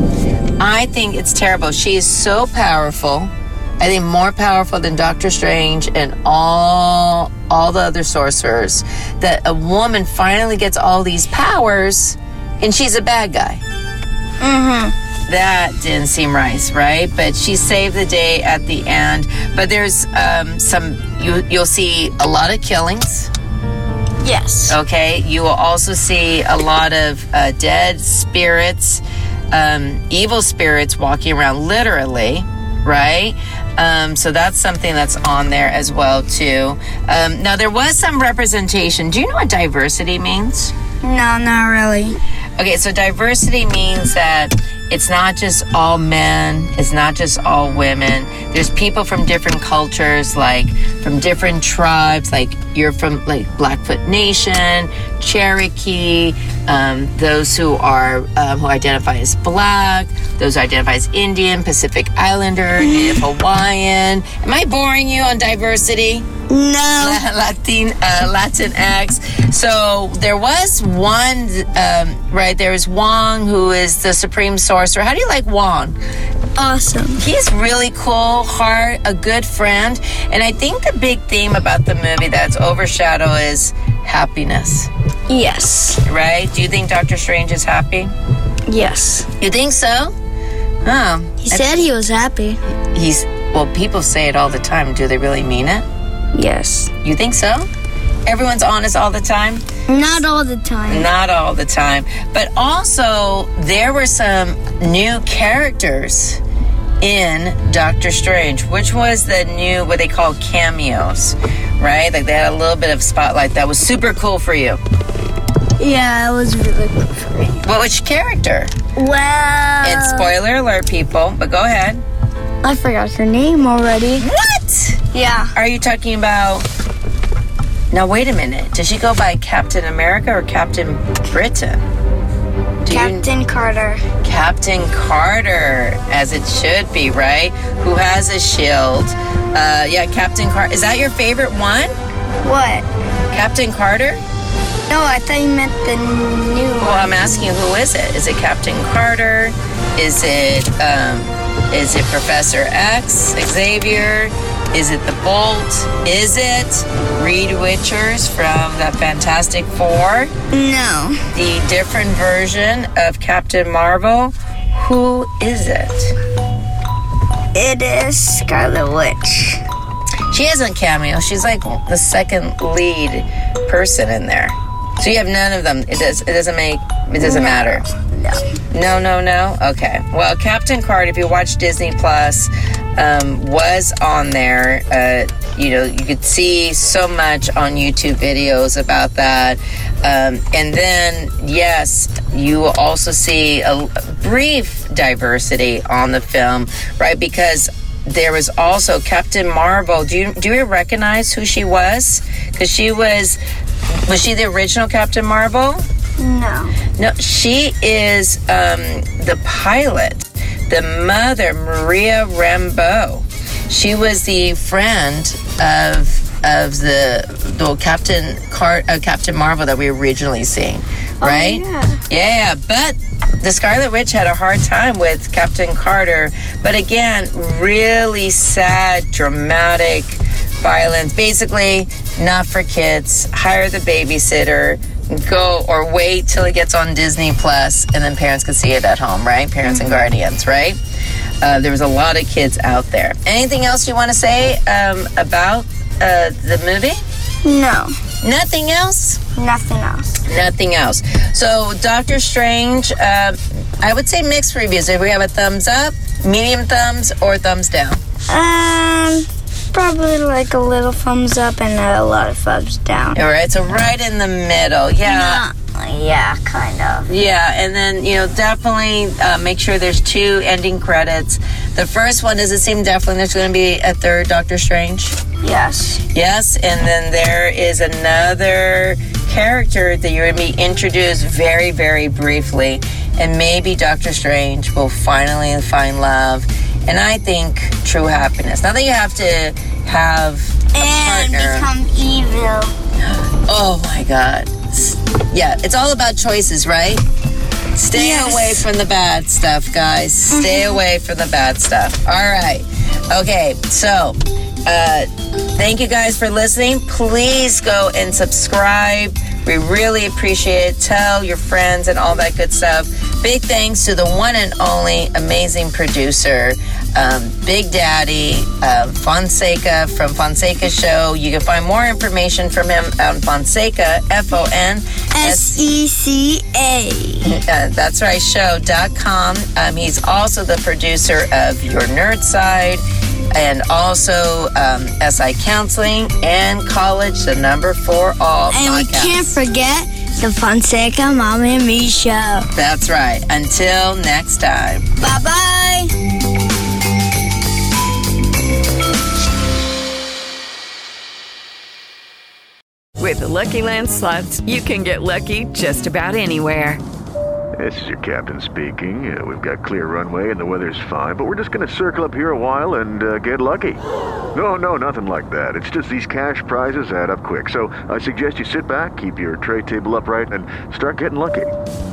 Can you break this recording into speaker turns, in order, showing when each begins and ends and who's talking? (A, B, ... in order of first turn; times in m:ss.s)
0:00.6-0:13.6 A
0:14.4-0:14.9 B
0:15.3-0:23.3 A
0:24.2-0:24.8 B
0:24.7-0:40.7 A
0:41.0-0:42.2 B
0:42.6-1:06.3 A
1:02.8-1:03.2 B
1:06.5-1:07.2 B
1:07.0-1:16.0 A
1:16.6-1:17.2 B
1:17.2-1:24.9 A
1:25.3-1:26.0 B
1:26.0-1:28.1 A
1:28.7-1:29.3 B
1:29.4-1:30.1 A
1:30.8-1:31.9 A
1:31.4-1:32.6 B
1:32.9-1:35.8 A
1:36.3-1:36.9 B
1:37.0-1:37.7 A
1:38.3-1:39.6 A
1:39.9-1:41.1 B
1:40.9-1:46.4 A
1:47.0-1:54.8 A
1:55.8-1:57.6 B
1:57.6-1:58.7 A
1:59.0-2:00.3 B
1:59.8-2:02.0 A
2:02.6-2:04.2 B
2:04.2-2:05.0 A
2:05.1-2:05.5 B
2:05.5-2:06.7 A
2:07.9-2:11.8 A
2:12.8-2:13.2 A
2:12.9-2:14.0 B
2:14.2-2:21.9 A
2:22.4-2:22.9 B
2:23.3-2:24.2 A
2:24.9-2:27.5 B
2:26.8-2:40.3 A
2:40.5-2:41.2 B
2:41.3-2:46.1 A
2:47.5-2:49.6 B
2:50.3-2:57.8 A
2:57.2-2:58.4 B
2:58.7-3:23.4 A
3:24.1-3:25.9 A
3:26.2-3:26.8 B
3:27.0-4:00.8 A
3:41.2-3:42.0 B
3:59.6-4:00.0 B
4:01.4-4:07.0 A
4:07.4-4:07.9 B
4:08.2-4:09.2 A
4:09.3-4:10.1 B
4:10.2-4:18.0 A
4:18.3-4:23.2 B
4:23.1-4:25.4 A
4:25.0-4:27.1 B
4:27.1-4:35.2 A
4:35.4-4:36.0 B
4:36.1-4:51.7 A
4:50.7-4:52.7 B
4:53.1-4:57.0 A
4:57.7-5:25.6 A
4:57.9-4:58.6 B
5:00.3-5:00.8 B
5:25.1-5:27.3 B
5:27.2-5:32.8 A
5:33.3-5:39.4 A
5:38.5-5:42.5 B
5:42.5-5:44.8 A
5:45.0-5:45.9 B
5:53.0-5:56.8 C
5:57.6-6:03.8 D
6:04.3-6:11.5 D